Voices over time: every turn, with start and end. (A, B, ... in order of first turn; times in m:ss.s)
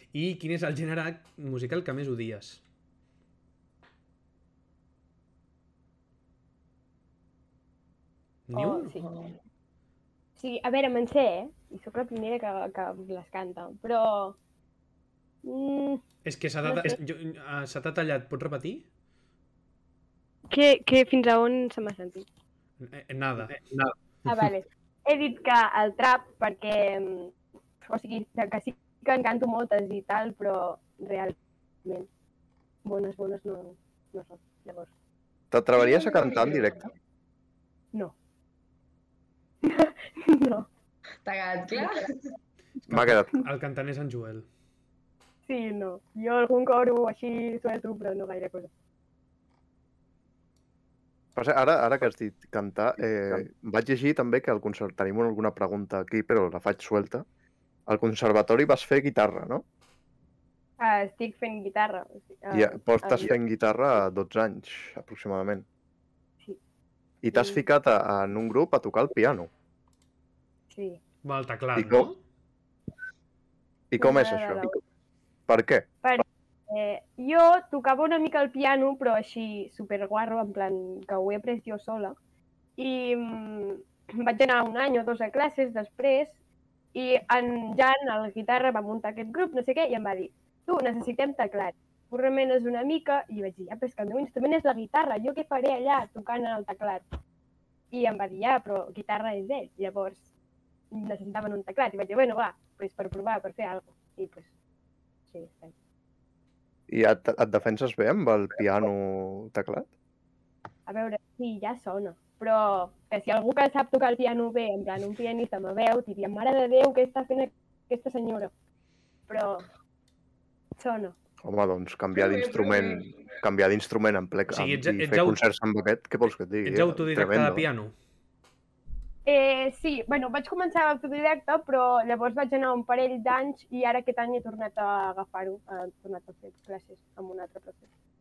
0:00.1-0:02.6 A
0:08.5-0:09.0 A
0:08.5-0:09.0 B
0:09.0-0:09.4 C
0:10.4-0:14.4 B
0:15.4-0:16.0 B
0:16.2-0:18.8 A
0:16.6-0:17.0 B
0:20.5-0:22.2 B
0:22.8-0:23.9 A
0:24.2-0:27.3 B
0:27.8-0:32.1 B
0:32.8-0:34.9 B
0:35.5-0:36.8 D
0:35.8-0:36.9 C
0:39.6-0:40.7 B
0:41.2-0:42.3 C
0:42.9-0:44.4 A
0:42.9-0:43.4 D
0:45.5-0:48.7 B
0:51.4-0:57.2 D
0:57.9-0:59.6 D
1:00.8-1:03.3 B
1:02.5-1:05.6 D
1:07.2-1:09.5 D
1:07.3-1:07.6 B
1:10.7-1:11.0 B
1:11.2-1:12.2 A
1:11.8-1:12.1 D
1:13.9-1:14.8 D
1:14.0-1:14.8 B
1:15.5-1:15.9 D
1:16.0-1:22.2 B
1:22.8-1:26.4 B
1:26.9-1:37.0 B
1:37.9-1:40.3 B
1:40.9-1:44.5 B
1:45.3-1:45.7 B
1:46.9-1:49.9 D
1:50.9-1:58.5 B
1:59.3-1:59.6 B
2:00.8-2:01.1 B
2:01.4-2:07.6 D
2:02.1-2:03.2 C
2:04.5-2:05.4 A
2:06.6-2:07.9 A
2:09.2-2:17.9 B